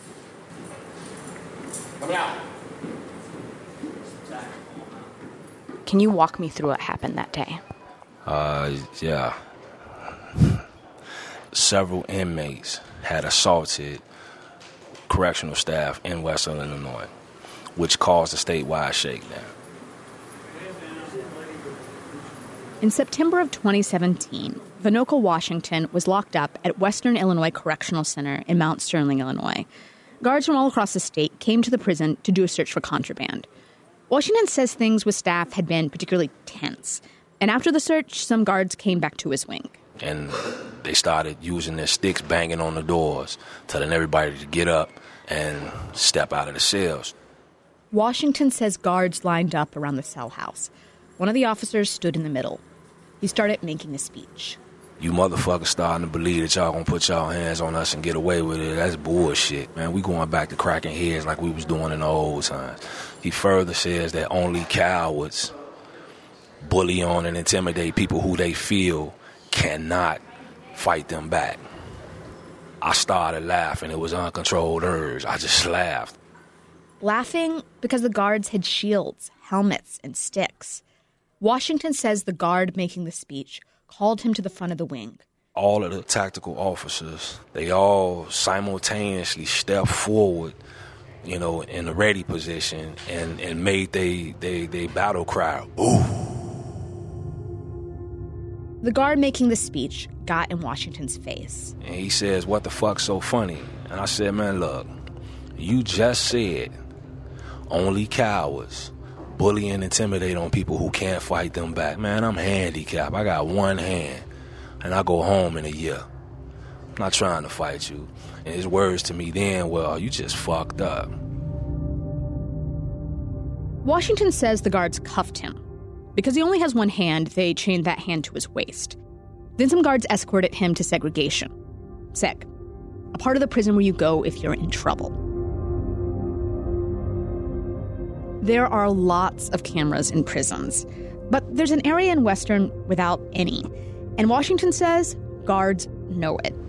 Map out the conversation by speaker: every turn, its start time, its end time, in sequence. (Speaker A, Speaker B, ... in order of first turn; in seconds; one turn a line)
Speaker A: 5.8-7.6
Speaker B: 8.2-9.4
Speaker B: 11.5-14.0
Speaker B: 15.1-17.1
Speaker B: 17.8-19.5
Speaker A: 22.8-29.7
Speaker A: 30.2-33.5
Speaker A: 34.1-39.8
Speaker B: 40.0-47.1
Speaker A: 47.9-52.6
Speaker A: 53.2-54.6
Speaker B: 55.0-65.5
Speaker B: 66.6-70.2
Speaker B: 70.7-71.6
Speaker B: 72.8-76.2
Speaker A: 77.0-80.8
Speaker A: 81.4-85.2
Speaker B: 85.5-90.6
Speaker B: 91.2-96.4
Speaker A: 98.8-101.8
Speaker B: 101.8-104.9
Speaker B: 105.6-106.7
Speaker B: 107.7-114.3
Speaker B: 114.8-116.1
Speaker B: 117.0-121.1
Speaker A: 123.8-125.6
Speaker A: 126.2-129.0
Speaker A: 129.6-131.5
Speaker A: 132.1-132.5
Speaker A: 133.1-135.2
Speaker A: 138.4-146.6